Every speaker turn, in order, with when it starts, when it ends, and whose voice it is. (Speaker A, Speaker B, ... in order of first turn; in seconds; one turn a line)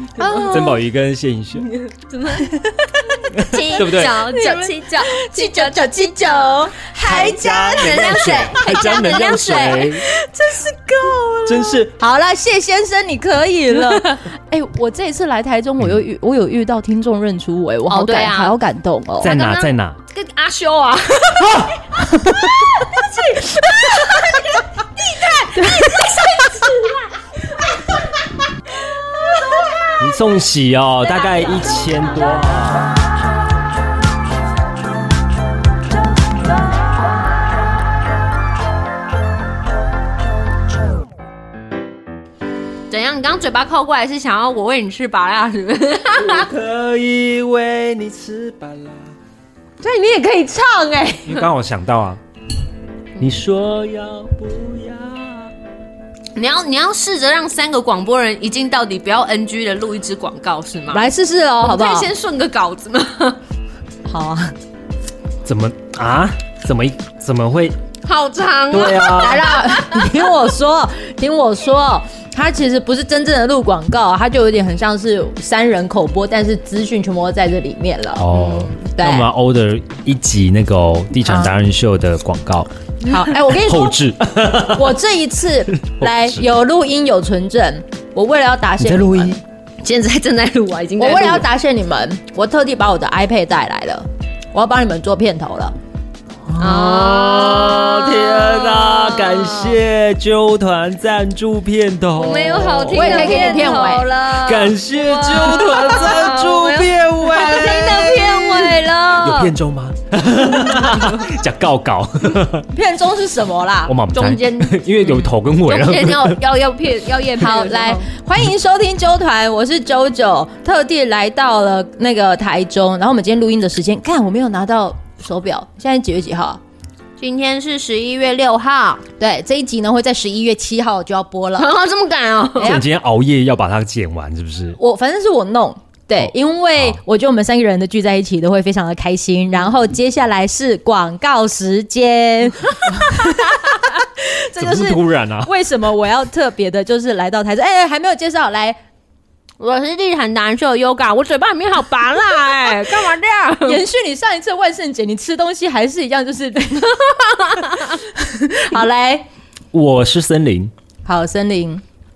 Speaker A: 0.2-0.8
Speaker B: 0.2-0.8
Speaker C: 0.4-1.7
Speaker A: 1.7-10.0
Speaker B: 2.4-2.8
Speaker C: 3.3-4.2
Speaker B: 4.0-19.3
Speaker C: 7.0-10.1
Speaker C: 11.5-11.9
Speaker A: 13.8-14.2
Speaker A: 17.9-18.6
Speaker C: 19.2-20.0
Speaker A: 19.2-21.9
Speaker B: 22.0-22.7
Speaker A: 22.6-27.1
Speaker B: 23.4-24.4
Speaker B: 25.5-26.5
Speaker C: 30.0-32.9
Speaker A: 31.1-32.6
Speaker A: 42.9-46.5
Speaker C: 46.2-49.1
Speaker A: 49.8-51.4
Speaker C: 51.3-52.2
Speaker C: 53.2-55.5
Speaker A: 56.4-61.1
Speaker B: 60.9-62.1
Speaker A: 61.6-63.4
Speaker B: 64.1-64.5
Speaker C: 65.5-67.8
Speaker A: 68.0-70.2
Speaker C: 68.7-69.4
Speaker B: 69.0-78.3
Speaker C: 78.2-85.0
Speaker A: 78.3-78.7
Speaker B: 78.9-79.3
Speaker B: 83.0-84.0
Speaker B: 84.6-89.4
Speaker C: 85.7-86.4
Speaker C: 88.8-89.4
Speaker A: 89.8-91.5
Speaker B: 91.0-95.7
Speaker C: 96.5-108.0
Speaker A: 96.6-99.7
Speaker A: 102.2-109.5
Speaker B: 102.9-104.1
Speaker B: 107.3-108.8
Speaker C: 109.2-112.7
Speaker B: 112.7-114.0
Speaker C: 113.8-116.4
Speaker A: 114.1-118.1
Speaker B: 117.4-126.6
Speaker A: 127.2-129.0
Speaker B: 129.2-131.7
Speaker A: 131.6-132.8
Speaker B: 132.6-132.8
Speaker C: 132.6-134.8
Speaker B: 134.8-148.8
Speaker C: 136.2-137.0
Speaker C: 144.6-145.5
Speaker A: 149.6-153.8
Speaker B: 153.7-159.3
Speaker A: 157.4-157.9
Speaker C: 159.7-160.7
Speaker B: 161.1-161.8